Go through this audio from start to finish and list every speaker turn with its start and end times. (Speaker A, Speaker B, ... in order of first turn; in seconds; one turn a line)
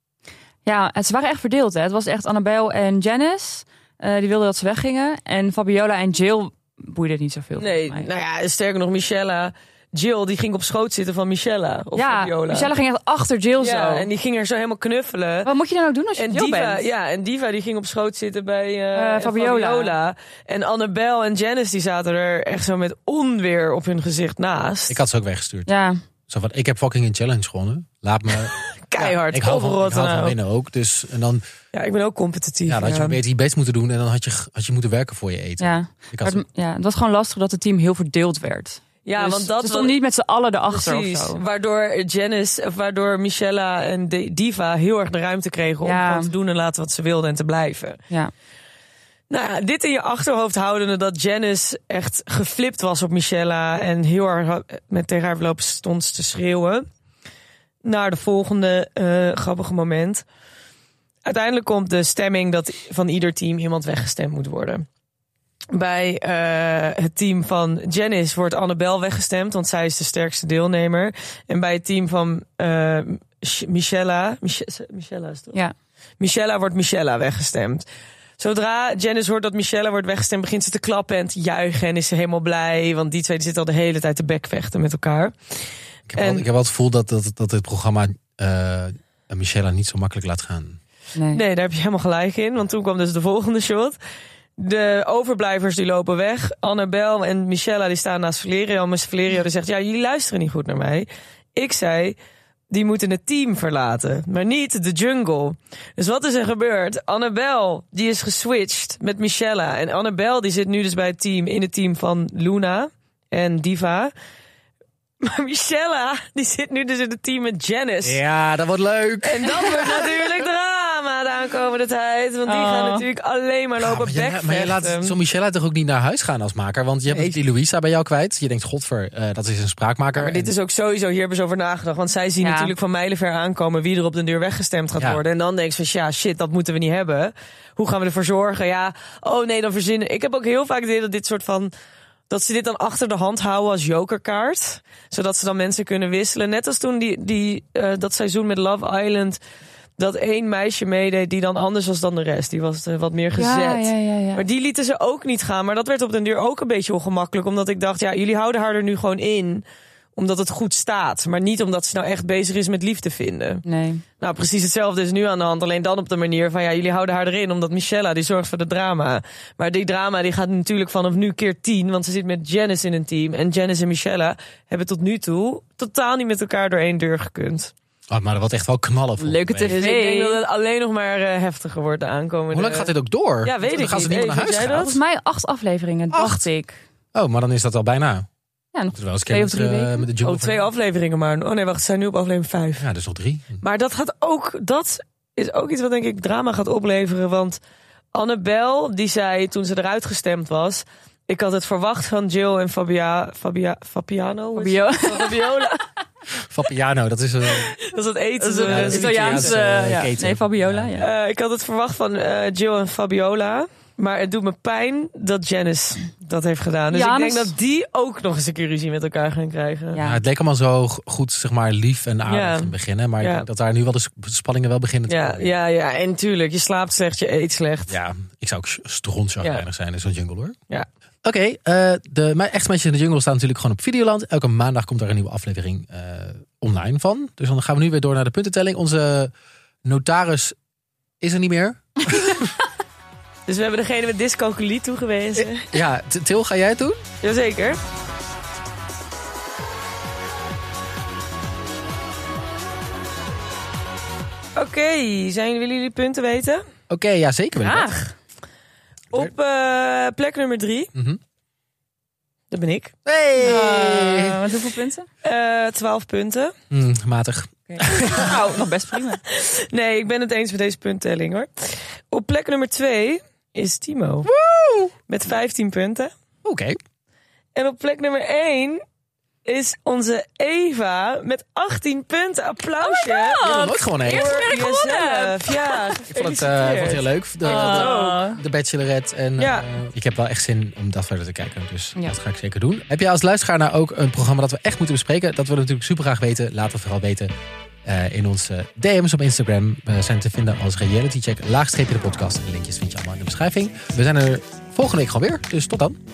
Speaker A: 0.7-8.1
Speaker B: 7.6-12.7
Speaker A: 12.0-14.1
Speaker B: 13.6-15.5
Speaker A: 15.5-16.9
Speaker B: 16.2-25.0
Speaker A: 18.9-19.9
Speaker C: 24.9-25.7
Speaker A: 25.7-26.0
Speaker C: 26.3-31.4
Speaker B: 28.9-30.4
Speaker B: 31.7-33.2
Speaker C: 32.7-36.4
Speaker A: 35.6-41.4
Speaker B: 39.0-40.0
Speaker B: 40.7-48.0
Speaker A: 45.8-46.3
Speaker B: 49.3-56.9
Speaker B: 57.8-60.2
Speaker B: 61.2-64.8
Speaker B: 65.7-75.6
Speaker B: 76.2-77.8
Speaker B: 78.4-85.7
Speaker C: 86.1-90.8
Speaker B: 86.2-86.5
Speaker A: 91.2-91.4
Speaker B: 91.3-94.0
Speaker B: 94.6-102.2
Speaker B: 102.7-114.1
Speaker B: 115.2-118.2
Speaker C: 118.0-120.4
Speaker B: 119.2-125.2
Speaker A: 122.5-123.0
Speaker C: 123.8-130.5
Speaker B: 130.2-141.7
Speaker A: 132.4-132.7
Speaker B: 142.3-149.4
Speaker B: 150.0-159.6
Speaker A: 153.3-154.4
Speaker B: 160.2-163.6
Speaker A: 163.7-164.0
Speaker B: 164.2-177.7
Speaker C: 178.1-179.8
Speaker A: 179.2-180.4
Speaker B: 179.7-182.9
Speaker C: 182.5-184.9
Speaker B: 183.4-185.0
Speaker A: 184.6-186.8
Speaker C: 186.1-186.5
Speaker C: 187.1-188.3
Speaker A: 188.7-190.1
Speaker C: 188.9-190.7
Speaker B: 190.2-192.8
Speaker C: 192.8-193.6
Speaker B: 193.6-197.6
Speaker B: 198.1-205.8
Speaker A: 204.6-205.7
Speaker C: 206.5-207.8
Speaker B: 207.8-209.6
Speaker A: 208.4-211.1
Speaker C: 208.6-211.0
Speaker B: 211.0-220.0
Speaker A: 216.9-217.5
Speaker A: 219.9-220.2
Speaker C: 220.0-225.6
Speaker B: 222.3-223.5
Speaker B: 225.1-228.0
Speaker C: 227.9-230.6
Speaker C: 231.2-239.3
Speaker C: 239.8-240.6
Speaker C: 241.2-242.5
Speaker B: 243.5-245.7
Speaker C: 245.4-247.1
Speaker B: 247.2-247.8
Speaker B: 254.6-256.6
Speaker C: 256.9-257.9
Speaker A: 257.6-258.0
Speaker B: 259.1-260.9
Speaker C: 260.9-261.2
Speaker B: 262.5-262.9
Speaker C: 263.1-264.4
Speaker A: 263.4-265.1
Speaker B: 265.2-266.5
Speaker C: 266.7-268.3
Speaker A: 267.7-269.2
Speaker B: 267.9-268.4
Speaker B: 269.3-274.3
Speaker C: 274.3-274.9
Speaker B: 275.1-276.1
Speaker C: 276.4-276.8
Speaker B: 277.6-278.8
Speaker B: 279.5-288.2
Speaker A: 282.8-285.9
Speaker C: 283.4-284.5
Speaker C: 286.1-297.3
Speaker A: 287.4-288.4
Speaker B: 289.4-289.7
Speaker C: 297.8-306.0